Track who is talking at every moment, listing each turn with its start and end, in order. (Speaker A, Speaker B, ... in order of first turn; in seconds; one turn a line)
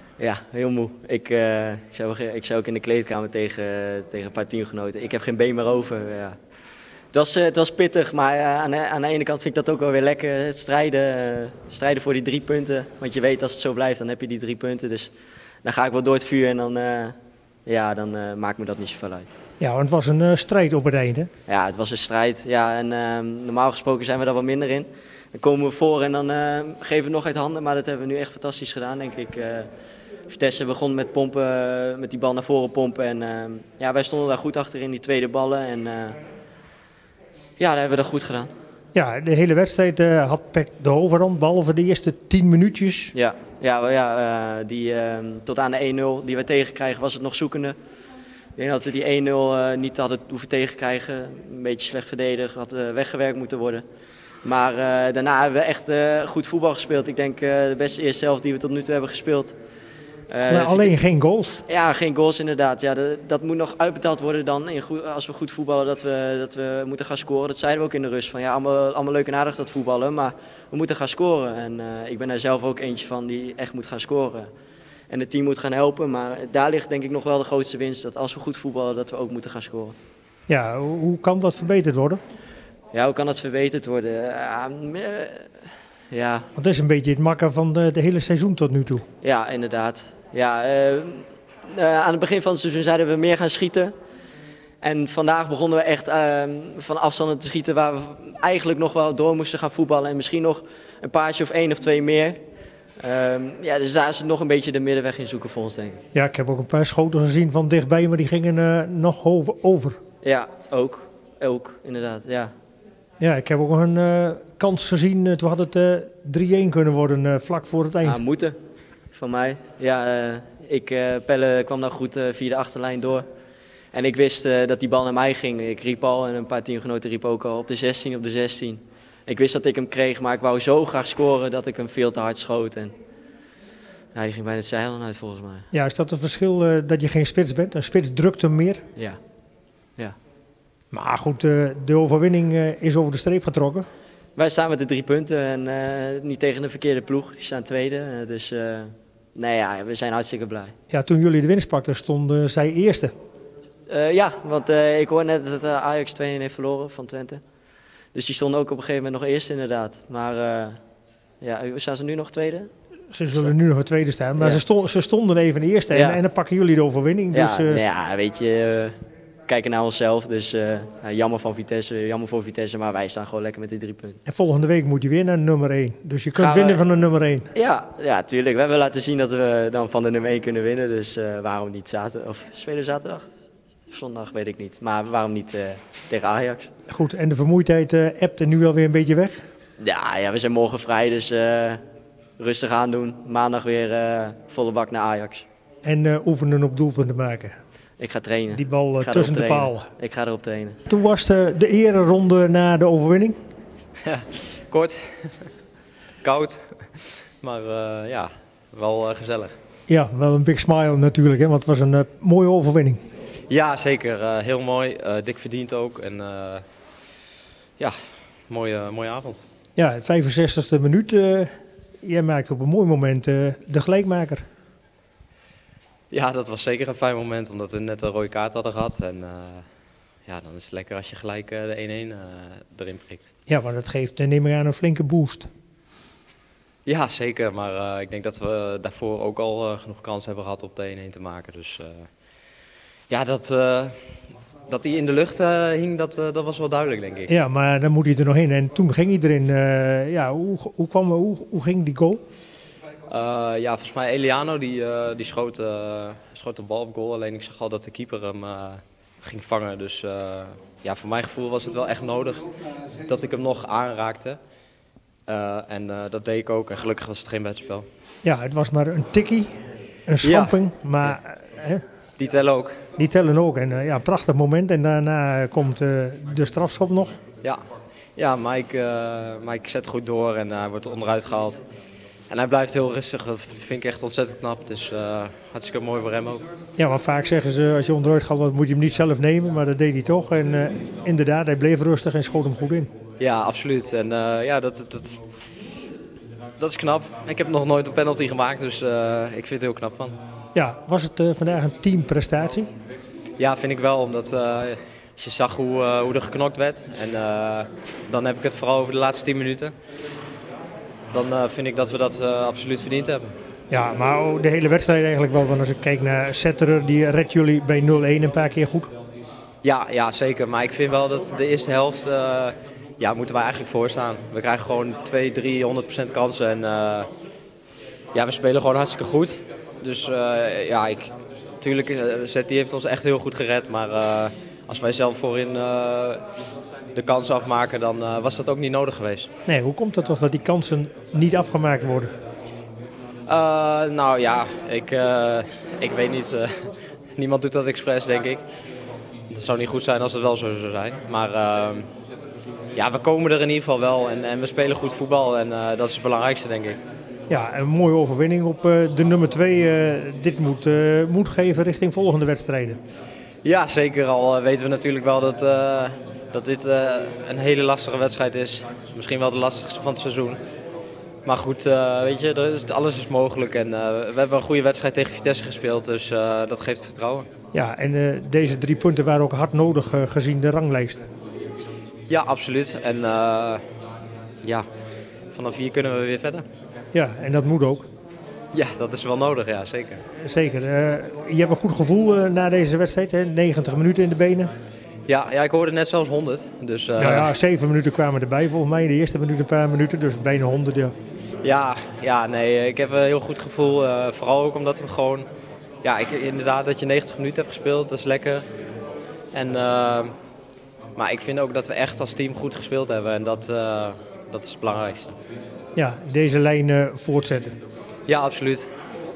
Speaker A: 0.2-6.4
Speaker A: 7.1-15.1
Speaker A: 15.6-17.1
Speaker A: 17.7-19.3
Speaker B: 19.6-21.3
Speaker A: 21.5-29.7
Speaker A: 30.3-36.2
Speaker A: 37.6-38.5
Speaker B: 38.9-43.1
Speaker A: 43.1-47.8
Speaker A: 48.6-53.8
Speaker A: 54.4-59.5
Speaker A: 60.3-61.0
Speaker B: 60.5-61.6
Speaker A: 61.7-74.5
Speaker A: 75.1-80.0
Speaker B: 80.5-82.2
Speaker A: 82.9-86.5
Speaker B: 86.5-89.0
Speaker A: 89.2-93.9
Speaker A: 94.8-102.4
Speaker A: 103.0-106.0
Speaker B: 106.1-110.0
Speaker A: 110.2-112.5
Speaker B: 113.2-118.2
Speaker A: 118.0-118.6
Speaker A: 119.1-123.2
Speaker A: 123.9-132.9
Speaker A: 134.2-135.7
Speaker B: 135.7-138.8
Speaker A: 138.9-139.2
Speaker B: 140.9-143.9
Speaker A: 144.4-150.7
Speaker B: 150.9-153.1
Speaker A: 153.9-157.4
Speaker A: 158.1-160.8
Speaker A: 161.4-162.7
Speaker B: 163.1-167.8
Speaker A: 164.4-164.6
Speaker A: 165.9-166.2
Speaker A: 167.3-169.0
Speaker A: 169.5-174.2
Speaker B: 174.3-177.5
Speaker A: 176.3-176.8
Speaker A: 177.5-183.3
Speaker A: 183.9-186.7
Speaker B: 186.9-189.4
Speaker A: 189.8-191.8
Speaker A: 192.4-195.4
Speaker B: 195.8-197.6
Speaker A: 198.0-200.8
Speaker B: 198.5-199.9
Speaker B: 200.9-203.4
Speaker C: 204.0-205.5
Speaker C: 206.2-209.6
Speaker B: 209.9-213.0
Speaker C: 213.5-216.6
Speaker C: 218.5-219.4
Speaker B: 219.8-224.4
Speaker C: 226.1-229.7
Speaker C: 230.3-233.3
Speaker B: 233.5-235.5
Speaker C: 236.9-242.1
Speaker C: 243.1-244.0
Speaker C: 244.7-247.3
Speaker B: 247.3-252.2
Speaker C: 253.1-262.5
Speaker C: 263.1-264.4
Speaker C: 265.3-267.9
Speaker B: 268.2-269.6
Speaker B: 270.1-271.8
Speaker C: 270.2-271.2
Speaker C: 272.2-272.8
Speaker B: 273.0-277.2
Speaker C: 278.2-281.6
Speaker C: 282.3-286.4
Speaker B: 286.8-292.9
Speaker C: 293.2-295.2
Speaker C: 296.6-300.2
Speaker B: 300.6-302.7
Speaker C: 303.4-309.7
Speaker C: 311.1-313.3
Speaker B: 313.7-318.9
Speaker C: 319.6-327.1
Speaker C: 328.1-336.2
Speaker C: 336.9-339.3
Speaker B: 339.5-342.1
Speaker C: 343.3-348.4
Speaker C: 349.3-351.9
Speaker C: 352.8-356.8
Speaker B: 357.3-362.8
Speaker C: 363.4-370.4
Speaker C: 371.2-377.3
Speaker B: 377.5-381.0
Speaker C: 382.1-383.6
Speaker C: 385.3-386.5
Speaker B: 386.9-387.9
Speaker C: 388.5-390.0
Speaker B: 390.2-394.5
Speaker C: 395.1-397.3
Speaker B: 397.0-400.9
Speaker C: 401.4-405.3
Speaker C: 405.8-408.4
Speaker C: 409.3-410.1
Speaker C: 411.0-415.2
Speaker B: 415.8-417.6
Speaker C: 418.1-418.7